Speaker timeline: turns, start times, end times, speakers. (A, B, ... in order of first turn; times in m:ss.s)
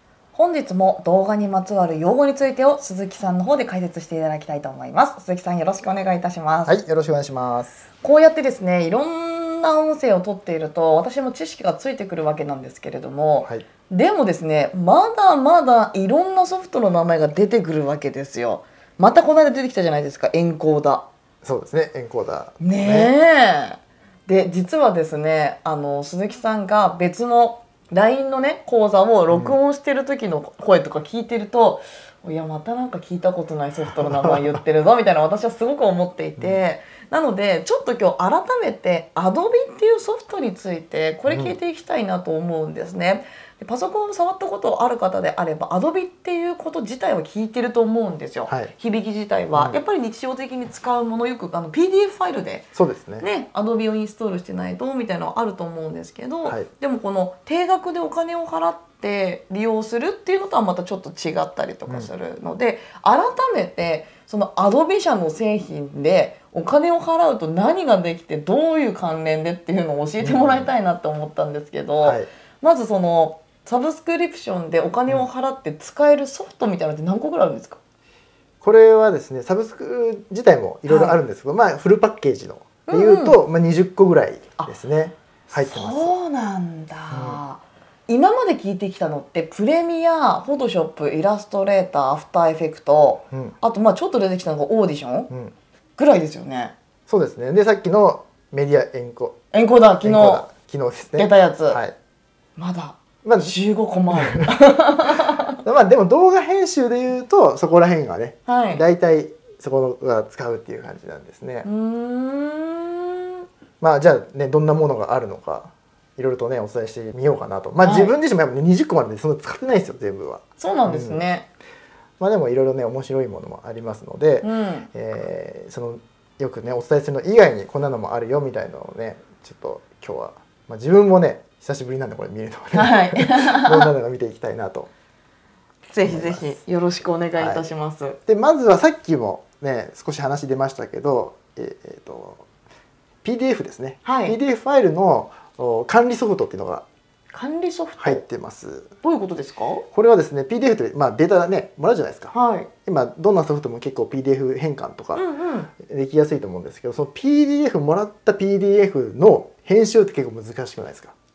0:00.3-0:06.8 A
0:06.7-0:07.8 B
0:08.0-0:21.0 A
0:21.4-0:23.1 B
0:22.6-0:52.7 A
0:29.3-0:29.6 B
0:41.3-0:41.6 B
0:49.5-0:49.8 B
0:52.7-0:53.2 B
0:53.2-1:17.8 A
1:10.2-1:10.7 B
1:12.0-1:12.3 B
1:18.6-1:26.2 B
1:20.9-1:21.2 A
1:22.9-1:23.4 A
1:25.5-1:35.3 A
1:27.1-1:27.4 B
1:36.0-1:36.7 A
1:37.1-1:39.3 B
1:39.5-1:40.4 A
1:40.0-1:42.0 B
1:41.2-1:41.8 A
1:42.6-1:45.6 A
1:43.2-1:43.6 B
1:44.1-1:44.5 B
1:45.6-1:51.7 B
1:48.4-1:48.8 A
1:51.6-1:53.4 A
1:53.8-2:01.2 B
1:57.8-1:58.1 A
2:00.6-2:01.5 A
2:02.2-2:14.9 B
2:04.4-2:04.9 A
2:12.7-2:13.9 A
2:15.9-2:18.2 A
2:16.0-2:16.6 B
2:17.4-2:17.6 B
2:18.3-2:22.4 B
2:23.2-2:26.8 B
2:24.0-2:24.4 A
2:27.3-2:28.2 A
2:28.0-2:28.9 B
2:29.0-2:29.8 A
2:29.9-2:32.3 B
2:32.3-2:32.7 A
2:32.8-2:35.2 B
2:35.1-2:35.7 A
2:35.8-2:41.1 B